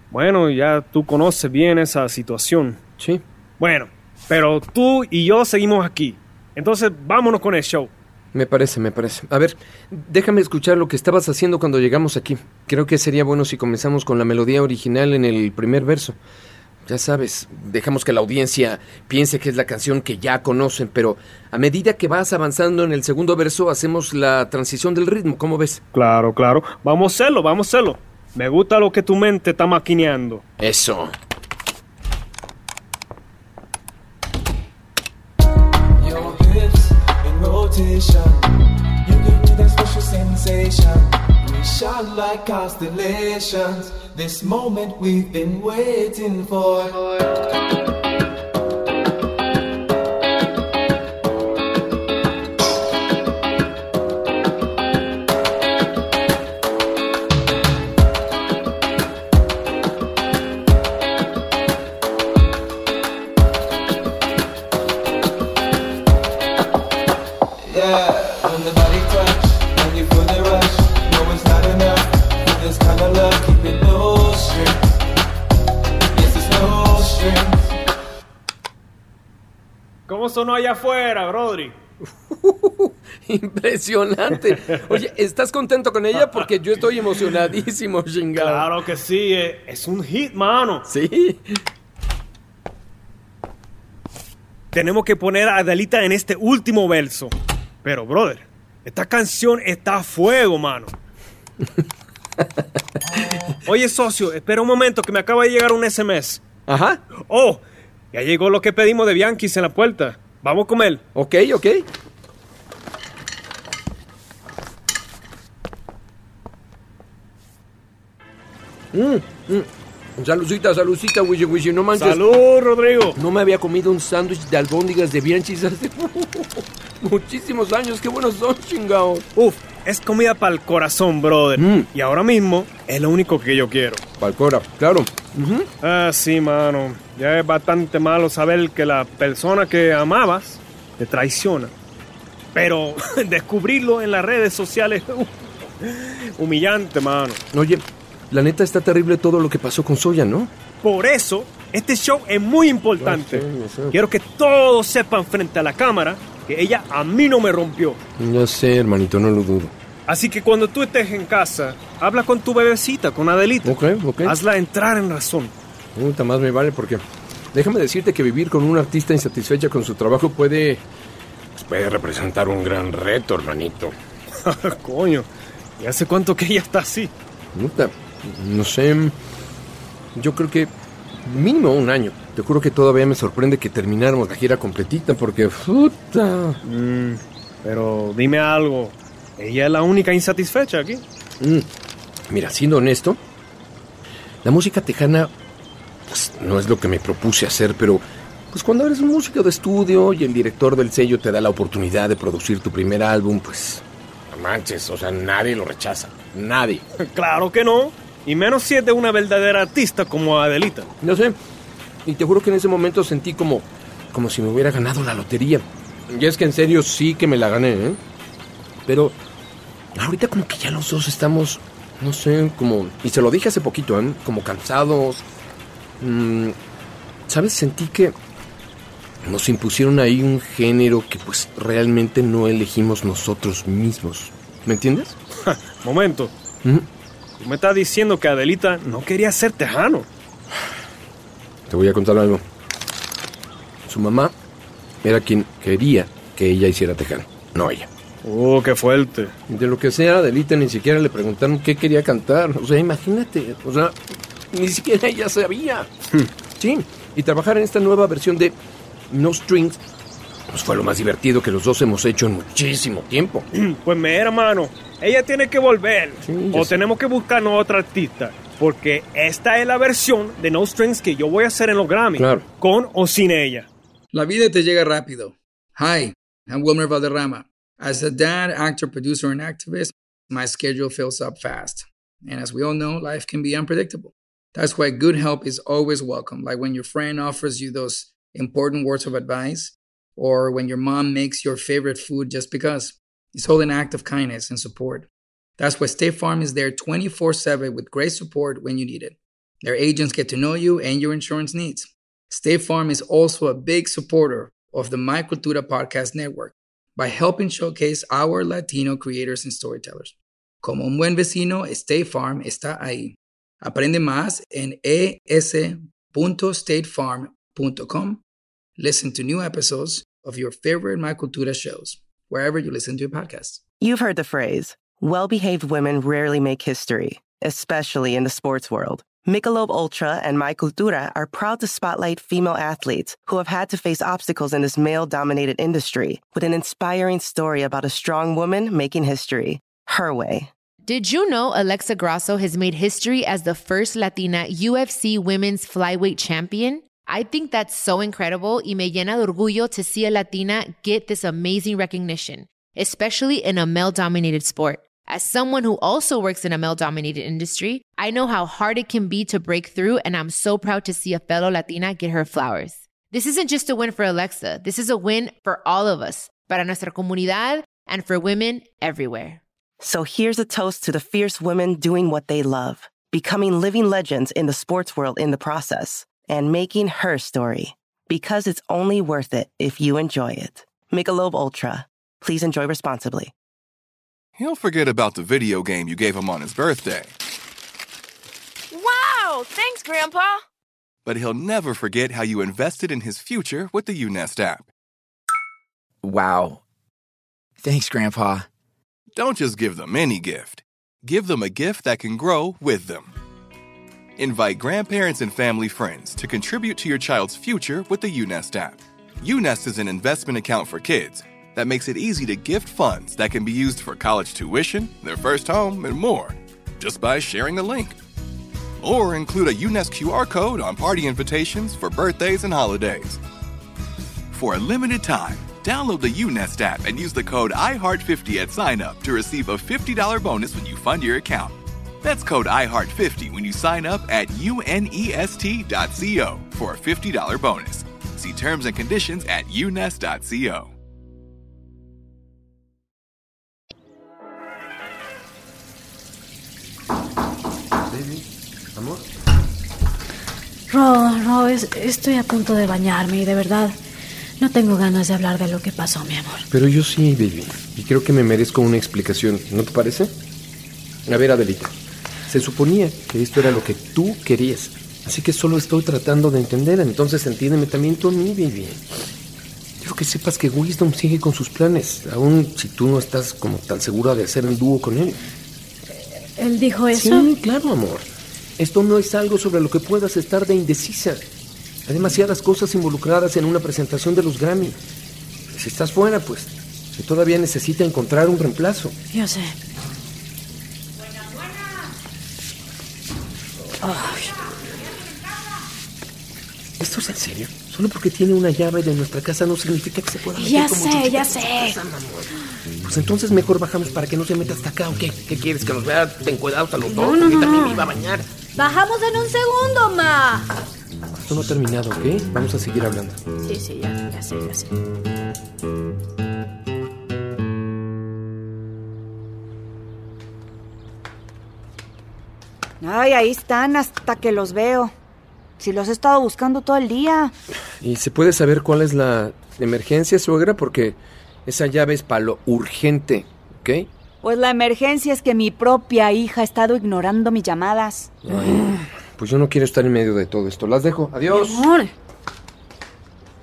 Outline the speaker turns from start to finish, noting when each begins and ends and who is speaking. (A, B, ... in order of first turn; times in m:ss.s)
0:00.1-0:02.8 A
0:03.6-0:07.9 A
0:08.3-0:16.2 B
0:16.8-0:25.8 B
0:25.9-0:30.4 A
0:30.6-0:31.1 B
0:36.0-0:38.5 C
0:39.0-0:47.1 C
1:07.6-1:14.8 C
1:16.1-1:17.7 C
1:20.1-1:21.8 A
1:22.3-1:28.7 B
1:26.2-1:26.4 A
1:28.4-1:30.8 A
1:30.8-1:31.6 B
1:34.7-1:37.3 A
1:37.8-1:40.9 A
1:43.2-1:43.5 B
1:43.6-1:46.4 A
1:46.6-1:47.0 B
1:47.1-1:51.0 A
1:51.1-1:51.8 B
1:58.9-2:02.4 B
2:01.9-2:03.2 A
2:03.1-2:09.3 B
2:09.4-2:14.0 A
2:11.6-2:11.9 B
2:14.2-2:15.7 B
2:15.8-2:21.7 A
2:22.5-2:27.4 A
2:27.5-2:30.5 B
2:30.8-2:38.0 A
2:33.0-2:34.0 B
2:38.2-2:39.7 B
2:40.1-2:45.5 A
2:43.6-2:44.4 B
2:45.9-2:50.8 B
2:51.5-2:53.9 B
2:54.4-2:57.1 A
2:57.5-2:59.2 B
3:00.1-3:00.7 B
3:01.2-3:06.6 B
3:06.6-3:11.0 A
3:11.4-3:11.7 B
3:12.3-3:13.2 B
3:14.4-3:15.3 B
3:16.1-3:26.8 B
3:27.0-3:30.9 A
3:31.0-3:31.4 B
3:32.0-3:38.0 B
3:38.8-3:39.2 B
3:39.9-3:45.2 B
3:46.0-3:46.5 B
3:47.3-3:48.2 B
3:49.2-3:55.2 B
3:55.4-3:56.3 A
3:57.4-4:00.1 A
4:01.7-4:02.4 B
4:03.8-4:04.3 B
4:05.0-4:07.9 B
4:08.2-4:09.3 A
4:09.5-4:18.6 B
4:19.1-4:19.8 B
4:20.5-4:23.4 B
4:23.5-4:33.7 A
4:26.2-4:26.8 B
4:32.1-4:32.5 B
4:34.1-5:18.2 D
5:18.8-5:23.6 D
5:23.8-5:40.5 E
5:40.8-6:09.4 F
6:09.8-6:23.3 E
6:24.4-6:27.1 G
6:31.0-6:34.7 G
6:39.1-6:43.1 G
6:44.2-6:58.0 G
6:58.8-7:03.2 G
7:04.3-7:20.7 G
7:27.8-7:29.0 B
7:30.7-7:33.8 H
7:34.4-7:36.4 H
7:36.5-7:40.1 B
7:41.0-7:41.7 B
7:42.3-7:48.8 B
7:49.8-7:55.2 B
7:56.4-7:57.3 H
7:56.9-8:01.2 B
8:01.8-8:04.8 B
8:05.5-8:08.9 B
8:09.1-8:09.6 H
8:13.8-8:14.4 H
8:16.8-8:28.3 B
8:20.3-8:21.8 H
8:26.8-8:27.9 H
8:28.5-8:30.5 H
8:31.2-8:33.2 B
8:33.4-8:34.7 H
8:42.8-8:44.9 I
8:45.6-8:47.3 I
8:47.8-8:53.9 B
8:54.2-8:58.2 I
8:58.2-9:01.7 B
8:58.4-8:58.8 H
9:01.3-9:01.9 H